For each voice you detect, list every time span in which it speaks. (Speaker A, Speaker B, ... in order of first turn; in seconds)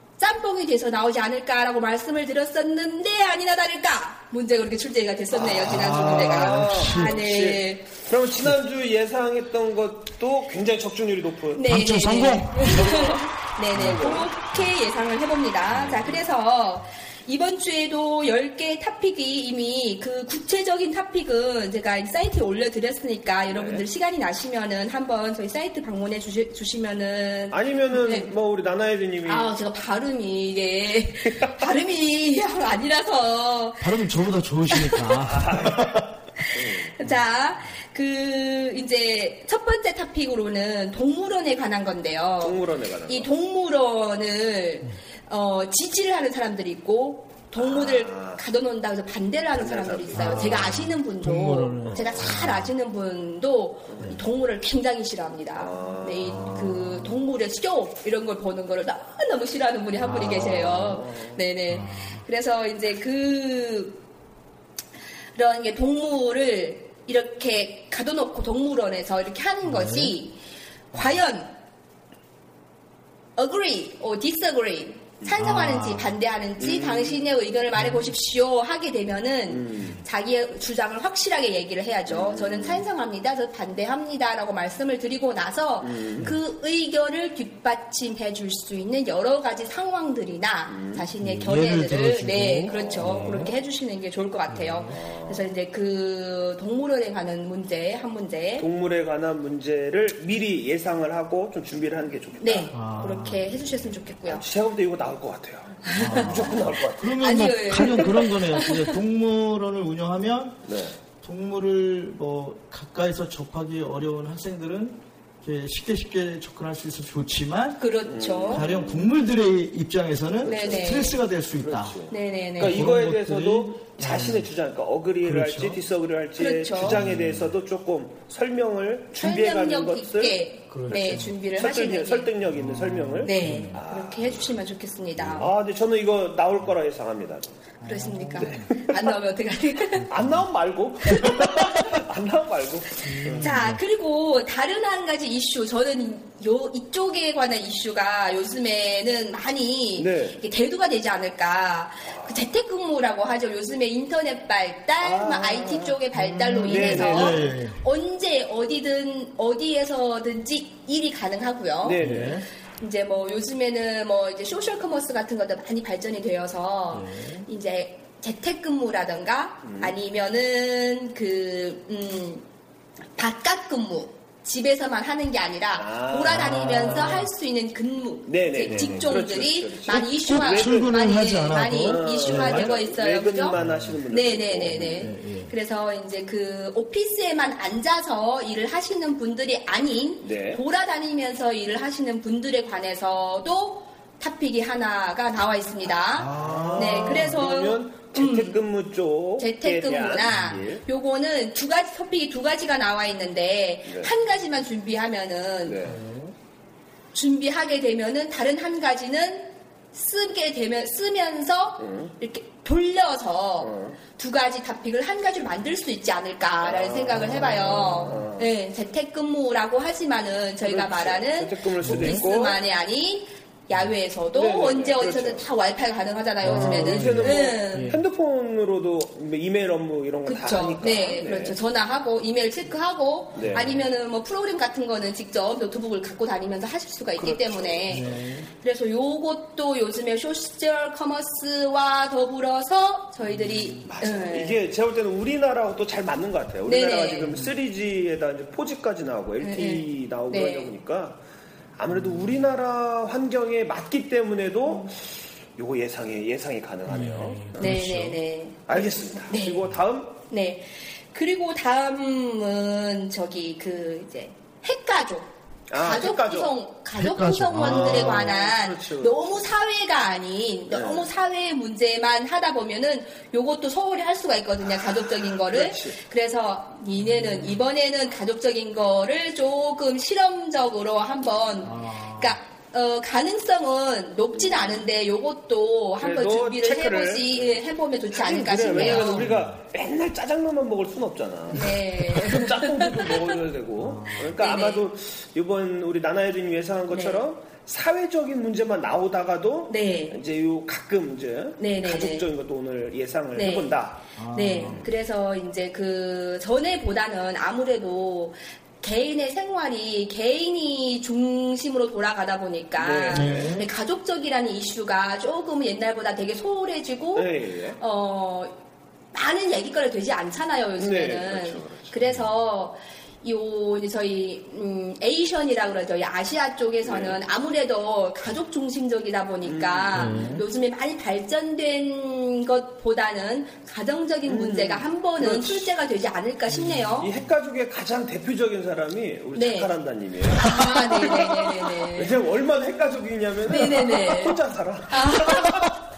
Speaker A: 0.2-7.9, 11.6-28.3, 29.2-34.0, 34.7-35.2, 36.4-64.0, 65.3-70.4, 70.9-71.5, 73.4-98.7, 102.4-104.4, 105.8-106.6, 107.2-109.0, 117.8-118.7, 120.5-121.2, 122.1-122.9, 126.4-127.0, 129.2-132.3, 133.2-135.5, 137.8-140.1, 141.2-141.8, 143.3-162.0, 162.8-172.4, 173.2-183.6, 184.1-198.6, 199.4-205.8, 207.1-228.0, 230.2-244.6, 246.7-247.5, 249.4-250.7, 257.6-259.6, 260.3-289.3, 291.5-293.2, 294.2-294.8, 296.9-297.2, 299.7-300.2, 301.6-302.3, 303.3-303.8, 304.3-318.6, 319.1-337.1, 339.3-339.7, 340.4-342.2, 343.5-344.4, 344.9-345.7
Speaker B: 5.3-11.7, 12.6-14.3, 15.8-16.2, 23.5-23.8, 27.5-29.5, 31.4-31.7, 35.2-36.9, 42.4-43.3, 47.6-48.4, 49.6-50.8, 51.9-52.4, 53.9-54.2, 55.6-56.8, 60.1-61.4, 76.6-77.2, 79.5-80.0, 82.1-82.9, 85.8-86.3, 90.7-91.1, 92.7-93.5, 94.9-95.5, 98.6-102.8, 104.2-107.1, 110.7-111.0, 118.0-119.1, 120.4-121.0, 121.6-130.4, 130.9-134.6, 135.2-137.5, 138.3-139.1, 140.1-143.6, 150.0-150.4, 152.1-152.5, 155.0-156.0, 156.6-157.4, 161.8-162.4, 169.7-169.9, 175.8-177.2, 178.3-180.9, 181.8-185.0, 190.2-190.6, 196.2-200.8, 203.9-204.1, 205.7-206.1, 211.8-212.1, 213.6-214.0, 216.6-218.5, 220.6-222.6, 224.3-225.5, 226.4-231.6, 233.3-233.8, 237.2-238.5, 243.8-251.2, 251.8-257.6, 258.7-260.2, 265.7-266.6, 267.6-269.5, 270.7-271.1, 274.6-276.0, 284.3-284.8, 286.0-304.0, 304.6-304.9, 312.8-313.6, 317.1-317.8, 320.8-321.9, 326.8-327.2, 329.4-330.4, 334.2-335.7, 337.0-345.8
Speaker C: 5.6-7.2, 11.6-12.8, 13.8-14.1, 33.8-36.1, 50.1-52.7, 56.4-57.1, 60.0-60.9, 61.7-62.2, 69.6-70.2, 75.3-76.2, 77.8-78.2, 91.2-93.5, 94.5-95.0, 102.7-103.8, 106.0-110.6, 111.2-117.9, 118.5-122.0, 122.6-124.5, 125.2-125.8, 126.8-127.5, 130.7-131.3, 132.5-133.8, 137.8-138.7, 140.0-140.4, 143.0-143.8, 156.2-157.8, 162.0-162.4, 166.9-167.5, 176.3-177.3, 178.7-179.2, 180.2-182.7, 183.6-184.0, 184.7-185.5, 196.2-197.3, 200.3-200.6, 205.8-206.3, 221.8-222.2, 226.4-228.0, 237.9-238.5, 243.3-243.8, 256.9-258.2, 266.9-268.4, 277.0-277.6, 281.6-282.4, 288.7-289.6, 293.8-294.4, 304.2-304.9, 313.1-313.7, 329.9-330.4, 336.5-337.3